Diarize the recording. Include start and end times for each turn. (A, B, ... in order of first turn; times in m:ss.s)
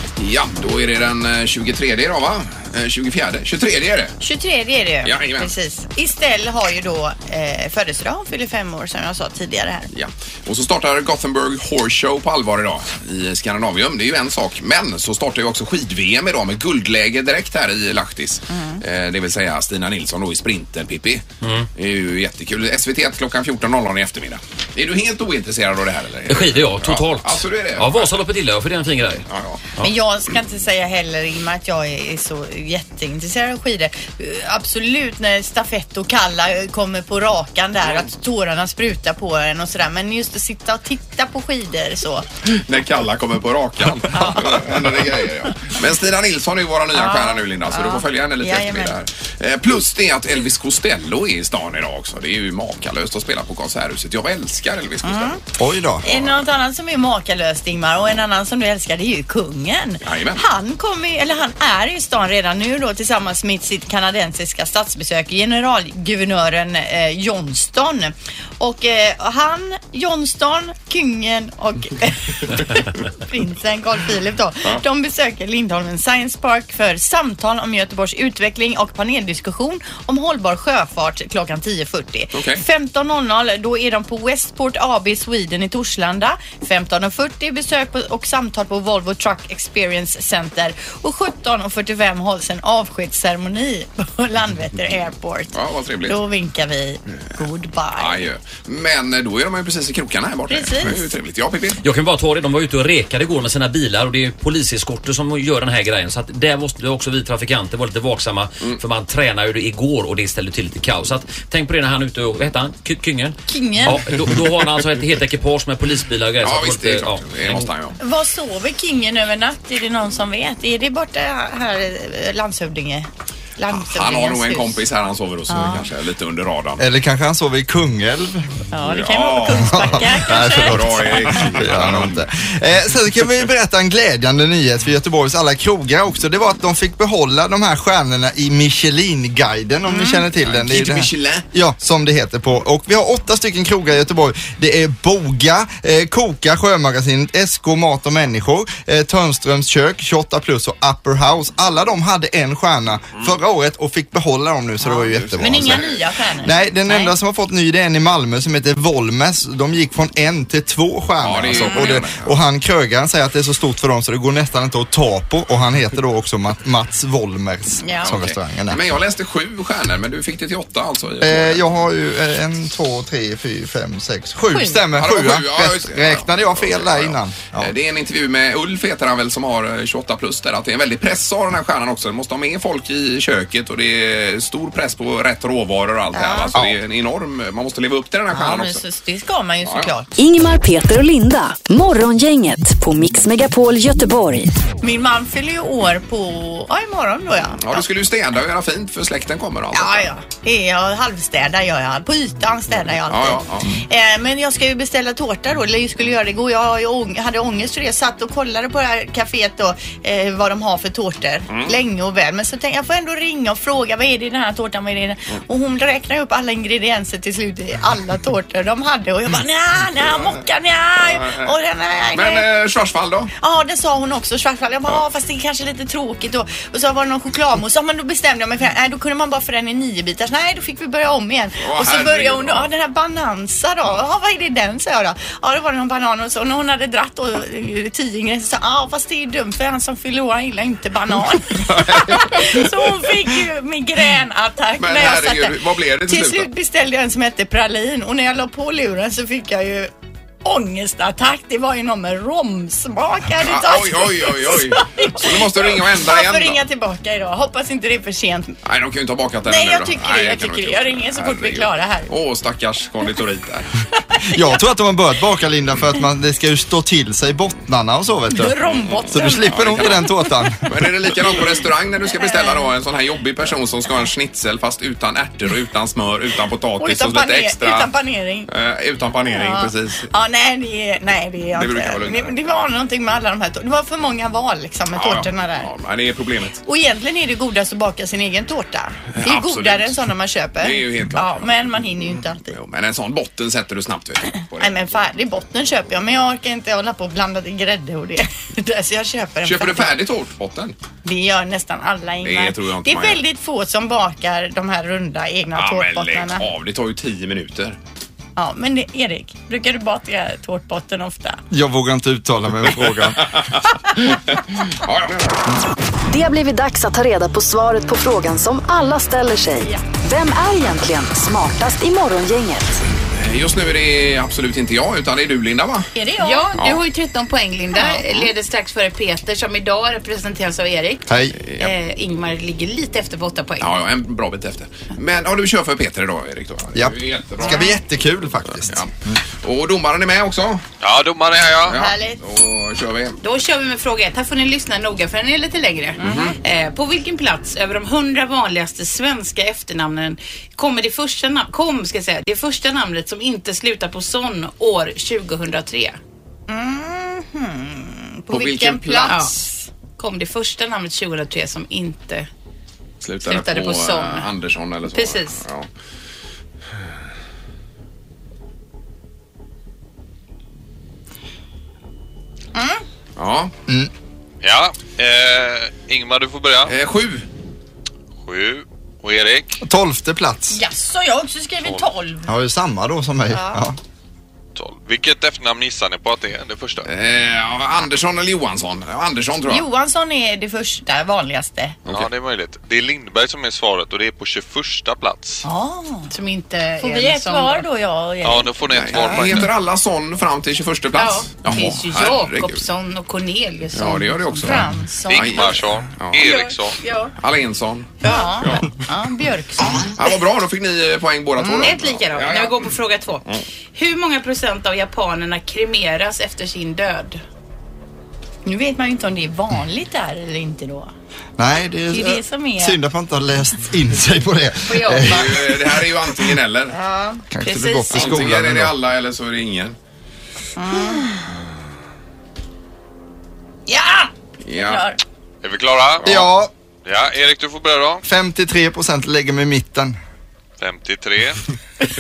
0:00.2-0:04.1 A
0:04.2-0:09.9 B
0:05.0-0:05.5 A
0:09.9-0:21.2 A
0:18.5-0:18.8 B
0:21.4-0:21.7 C
0:21.8-0:28.1 A
0:26.3-0:29.2 C
0:29.3-0:29.6 A
0:29.8-0:42.3 B
0:42.4-0:55.4 A
0:44.1-0:44.6 B
0:46.9-0:48.9 B
0:55.0-0:55.4 B
0:55.6-0:56.0 D
0:56.0-1:35.6 B
0:56.0-0:56.4 A
1:00.0-1:00.4 A
1:22.3-1:22.6 A
1:35.5-1:36.2 A
1:36.1-1:38.2 B
1:38.0-1:41.8 A
1:40.5-1:41.1 B
1:41.8-1:57.7 C
1:53.5-1:54.1 B
1:56.4-1:58.0 A
1:58.0-2:04.8 B
2:03.7-2:06.8 A
2:05.5-2:05.9 B
2:06.8-2:08.5 D
2:08.7-2:11.5 B
2:08.9-2:12.2 A
2:09.5-2:35.8 D
2:19.9-2:20.2 B
2:20.4-2:21.4 A
2:34.8-2:37.2 B
2:35.1-2:36.0 A
2:36.4-2:48.8 D
2:41.2-2:42.3 A
2:41.5-2:42.0 B
2:47.8-2:48.1 B
2:48.0-2:51.7 A
2:51.2-2:57.7 D
2:54.5-2:54.8 B
2:55.0-3:08.8 A
3:06.1-3:06.6 B
3:08.3-3:10.2 B
3:09.6-3:09.9 A
3:10.2-3:14.5 E
3:14.8-3:17.8 B
3:17.6-3:20.1 A
3:19.7-3:42.5 B
3:23.1-3:23.8 A
3:31.5-3:31.7 A
3:40.0-3:40.4 A
3:41.0-3:41.5 A
3:42.1-3:43.3 A
3:43.4-4:05.6 B
3:51.6-3:52.7 A
4:01.5-4:02.6 A
4:04.8-4:06.5 A
4:06.1-4:09.9 B
4:10.4-4:18.6 B
4:13.4-4:16.6 A
4:18.6-4:23.7 A
4:19.5-4:22.1 B
4:24.3-4:28.5 D
4:28.3-4:30.0 B
4:28.7-4:30.1 A
4:29.1-4:30.9 D
4:30.6-4:37.9 A
4:32.1-4:32.7 B
4:36.8-4:38.5 B
4:38.5-4:40.1 A
4:39.3-4:45.7 B
4:41.5-4:42.5 A
4:44.9-4:46.6 A
4:46.6-4:52.5 B
4:49.1-4:50.0 A
4:50.6-4:51.9 A
4:52.5-4:55.1 A
4:54.6-4:59.9 B
4:59.4-5:00.8 A
5:01.0-5:06.4 B
5:02.2-5:03.2 A
5:05.5-5:07.8 A
5:08.4-5:11.4 B
5:11.5-5:13.4 D
5:12.8-5:14.1 A
5:14.8-5:15.4 A
5:16.1-5:22.8 E
5:23.1-5:25.9 A
5:25.9-5:26.5 B
5:26.2-5:33.7 F
5:26.5-5:26.8 A
5:27.7-5:28.0 B
5:31.1-5:31.3 D
5:31.4-5:31.7 A
5:33.6-5:37.7 A
5:36.7-5:39.2 D
5:37.4-5:37.8 B
5:39.4-5:40.6 A
5:40.8-5:41.8 G
5:41.5-5:43.2 A
5:41.7-5:42.2 B
5:43.2-5:56.0 F
5:46.0-5:46.4 B
5:46.0-5:46.4 A
5:56.5-5:59.7 B
5:58.3-5:59.1 A
5:59.0-5:59.3 F
6:00.0-6:02.3 F
6:03.0-6:05.7 A
6:03.2-6:04.3 F
6:04.9-6:05.4 F
6:12.5-6:12.8 B
6:13.2-6:13.5 A
6:14.4-6:16.7 G
6:16.7-6:17.2 A
6:18.2-6:19.6 G
6:19.6-6:20.6 D
6:20.5-6:22.3 B
6:22.3-6:23.8 D
6:23.3-6:23.6 B
6:24.5-6:26.9 G
6:26.8-6:29.6 A
6:29.5-6:31.8 B
6:31.9-6:35.4 G
6:35.4-6:36.1 B
6:36.1-6:37.7 F
6:36.8-6:39.4 B
6:38.2-6:39.5 G
6:38.7-6:42.7 A
6:41.0-6:44.7 F
6:43.7-6:46.2 A
6:44.4-6:45.5 B
6:45.1-6:46.8 G
6:46.2-6:47.1 B
6:47.2-6:48.6 A
6:48.0-6:49.9 B
6:48.0-6:48.5 F
6:49.9-6:52.7 A
6:51.4-6:57.2 F
6:58.4-7:00.9 B
7:01.4-7:05.6 D
7:01.9-7:02.8 B
7:04.7-7:05.3 F
7:05.0-7:06.7 A
7:06.7-7:08.2 B
7:07.3-7:08.7 D
7:07.9-7:09.8 A
7:10.6-7:11.2 B
7:13.7-7:15.0 B
7:14.4-7:14.8 A
7:15.4-7:16.2 G
7:16.0-7:16.5 D
7:16.8-7:18.0 G
7:18.0-7:20.0 D
7:20.6-7:21.4 G